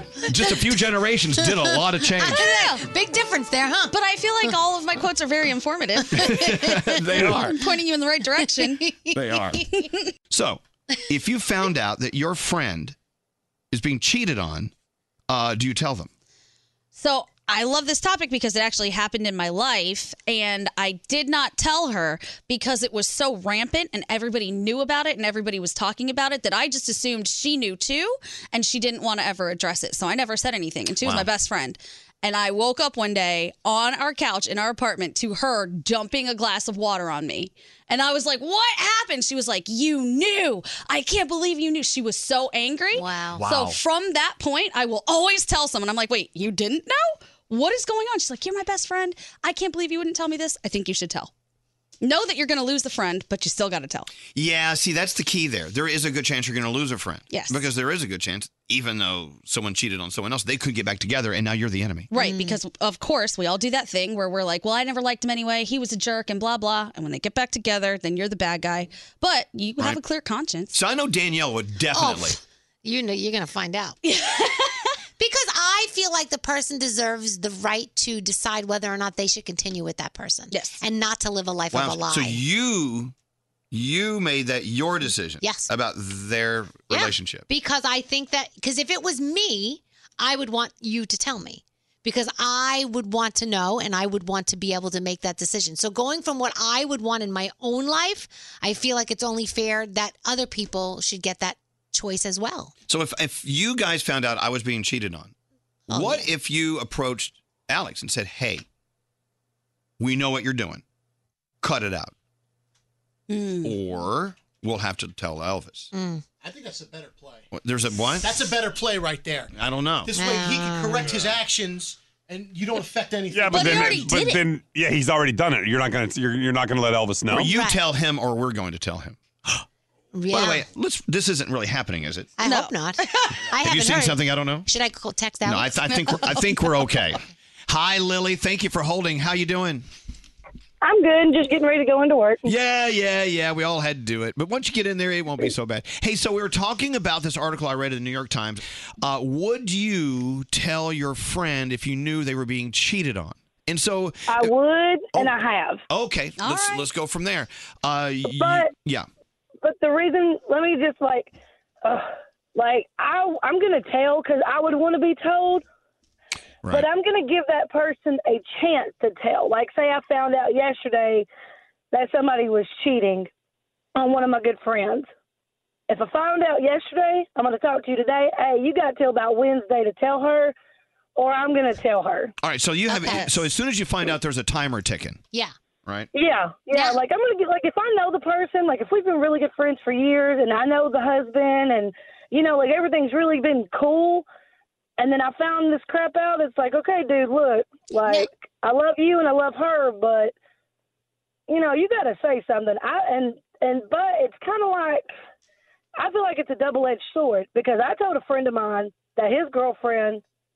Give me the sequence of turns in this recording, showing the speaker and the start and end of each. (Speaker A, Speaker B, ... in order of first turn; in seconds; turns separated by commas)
Speaker A: 0.3-2.5, Speaker B: 1.6-3.9, Speaker C: 2.3-2.8, Speaker C: 3.9-6.7, Speaker A: 6.2-7.6, Speaker B: 6.2-7.4, Speaker C: 7.4-8.9, Speaker B: 8.4-9.6, Speaker A: 9.1-9.6, Speaker A: 10.3-13.0, Speaker A: 13.7-14.7, Speaker A: 15.3-16.1, Speaker C: 16.9-51.3, Speaker A: 31.0-31.3, Speaker B: 42.9-43.5, Speaker A: 43.4-43.7, Speaker C: 52.0-54.1, Speaker A: 54.3-62.1, Speaker C: 57.3-57.7, Speaker C: 62.1-70.8, Speaker B: 62.1-62.6, Speaker A: 70.7-72.4, Speaker B: 71.9-74.0, Speaker C: 74.0-74.7, Speaker B: 75.2-82.4, Speaker C: 80.5-80.8, Speaker A: 81.7-83.1, Speaker A: 83.7-87.5, Speaker B: 85.4-85.7, Speaker B: 86.9-102.7, Speaker A: 102.9-105.3, Speaker B: 105.9-106.3, Speaker A: 105.9-108.7, Speaker A: 110.0-110.8, Speaker A: 111.6-112.1, Speaker C: 113.3-113.8, Speaker A: 113.6-115.9, Speaker B: 115.9-116.2, Speaker D: 116.4-117.5, Speaker A: 117.5-118.6, Speaker D: 118.2-119.5, Speaker A: 119.5-120.2, Speaker D: 120.0-124.2, Speaker B: 120.1-121.2, Speaker E: 123.3-127.4, Speaker C: 123.5-124.5, Speaker A: 127.3-129.2, Speaker B: 127.4-127.8, Speaker B: 130.1-130.7, Speaker A: 130.3-132.3, Speaker B: 132.4-136.4, Speaker C: 132.4-133.3, Speaker A: 133.6-134.7, Speaker A: 135.4-139.9, Speaker F: 141.0-142.4, Speaker A: 142.4-154.6, Speaker F: 154.5-155.8, Speaker A: 155.1-159.1, Speaker C: 156.4-156.8, Speaker F: 159.7-161.3, Speaker F: 162.6-165.6, Speaker A: 166.6-166.9, Speaker F: 166.8-171.3, Speaker F: 171.9-173.3, Speaker F: 174.0-175.1, Speaker F: 175.9-180.5, Speaker F: 181.2-182.3, Speaker A: 182.4-185.2, Speaker B: 182.9-183.4, Speaker F: 186.2-186.6, Speaker B: 186.7-187.0, Speaker F: 187.1-194.2, Speaker F: 195.0-198.1, Speaker F: 198.7-200.2, Speaker F: 201.5-205.0, Speaker F: 206.0-210.2